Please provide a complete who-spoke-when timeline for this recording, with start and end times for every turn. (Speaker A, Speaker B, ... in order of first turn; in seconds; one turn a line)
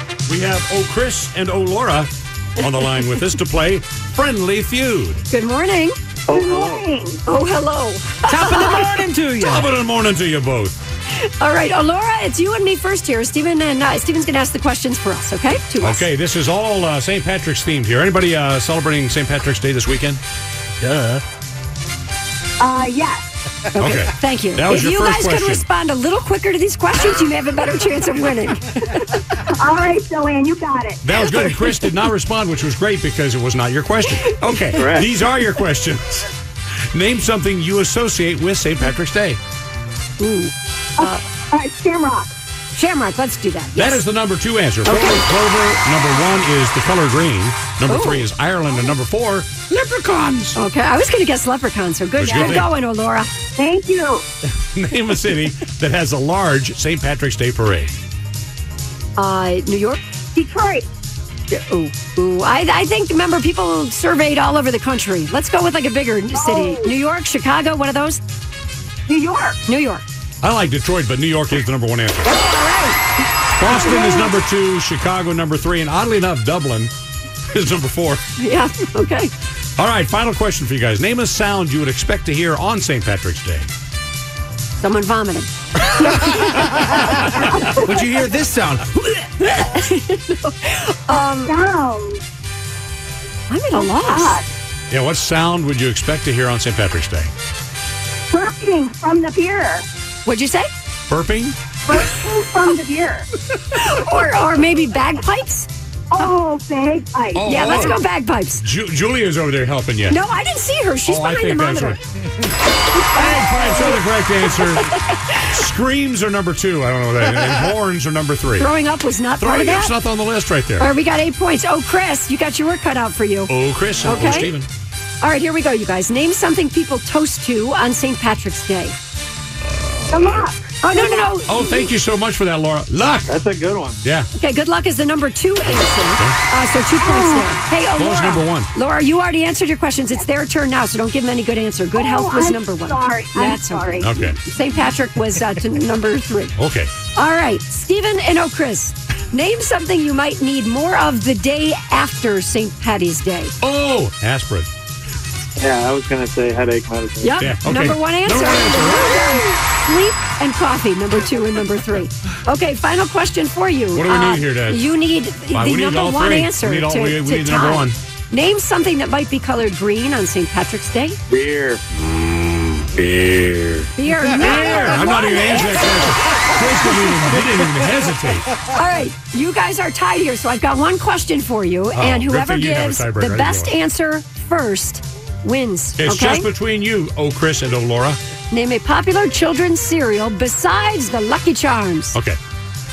Speaker A: 0.3-5.2
Speaker B: 5.3-6.0
Speaker C: 6.3-6.8
Speaker D: 6.3-7.2
Speaker B: 7.3-9.0
Speaker E: 8.3-9.7
Speaker A: 9.4-10.8
Speaker B: 11.4-16.1
Speaker A: 15.8-20.2
Speaker E: 20.8-21.2
Speaker D: 22.6-23.3
Speaker B: 23.8-29.2
Speaker A: 23.8-25.7
Speaker D: 29.5-31.0
Speaker A: 31.0-36.3
Speaker C: 34.7-35.1
Speaker A: 36.9-39.4
Speaker B: 40.2-41.2
Speaker D: 41.0-42.3
Speaker B: 42.7-44.0
Speaker A: 43.8-50.5
Speaker B: 44.9-45.2
Speaker B: 47.9-48.3
Speaker B: 50.5-53.3
Speaker A: 52.2-52.7
Speaker D: 53.6-54.2
Speaker A: 54.7-57.9
Speaker B: 59.2-60.0
Speaker D: 60.4-60.9
Speaker B: 61.5-68.2
Speaker D: 66.3-66.9
Speaker D: 69.1-69.6
Speaker B: 69.7-70.0
Speaker A: 70.4-72.4
Speaker B: 72.2-74.3
Speaker A: 73.5-76.9
Speaker A: 77.5-78.2
Speaker B: 78.4-79.3
Speaker A: 79.8-83.7
Speaker B: 84.8-86.6
Speaker D: 87.4-87.9
Speaker E: 87.8-89.0
Speaker B: 89.1-91.5
Speaker D: 91.1-92.2
Speaker B: 93.5-94.4
Speaker D: 93.7-94.5
Speaker A: 94.9-97.3
Speaker D: 98.3-99.9
Speaker B: 100.2-100.7
Speaker A: 101.1-101.6
Speaker D: 101.9-103.3
Speaker B: 103.7-105.7
Speaker D: 106.1-108.0
Speaker A: 107.3-108.0
Speaker B: 107.4-108.6
Speaker A: 108.6-110.2
Speaker B: 110.1-112.0
Speaker A: 111.1-112.0
Speaker A: 113.1-118.7
Speaker B: 113.5-113.9
Speaker B: 118.6-119.9
Speaker A: 119.4-120.9
Speaker B: 120.8-124.5
Speaker A: 123.5-124.7
Speaker B: 125.2-129.0
Speaker A: 129.6-130.5
Speaker D: 130.1-131.8
Speaker B: 130.8-131.6
Speaker A: 131.5-133.3
Speaker C: 133.3-134.0
Speaker A: 134.0-134.3
Speaker B: 134.4-146.6
Speaker D: 137.0-137.5
Speaker A: 138.0-138.7
Speaker D: 141.9-144.2
Speaker A: 144.0-144.4
Speaker A: 146.6-146.9
Speaker B: 147.2-153.5
Speaker A: 153.6-154.7
Speaker C: 155.6-157.4
Speaker B: 157.2-171.2
Speaker A: 157.4-159.4
Speaker A: 163.9-164.9
Speaker A: 165.5-168.0
Speaker C: 171.3-173.9
Speaker B: 174.0-177.0
Speaker A: 174.3-178.5
Speaker B: 178.7-186.5
Speaker A: 181.9-183.7
Speaker A: 186.0-188.2
Speaker B: 188.5-192.2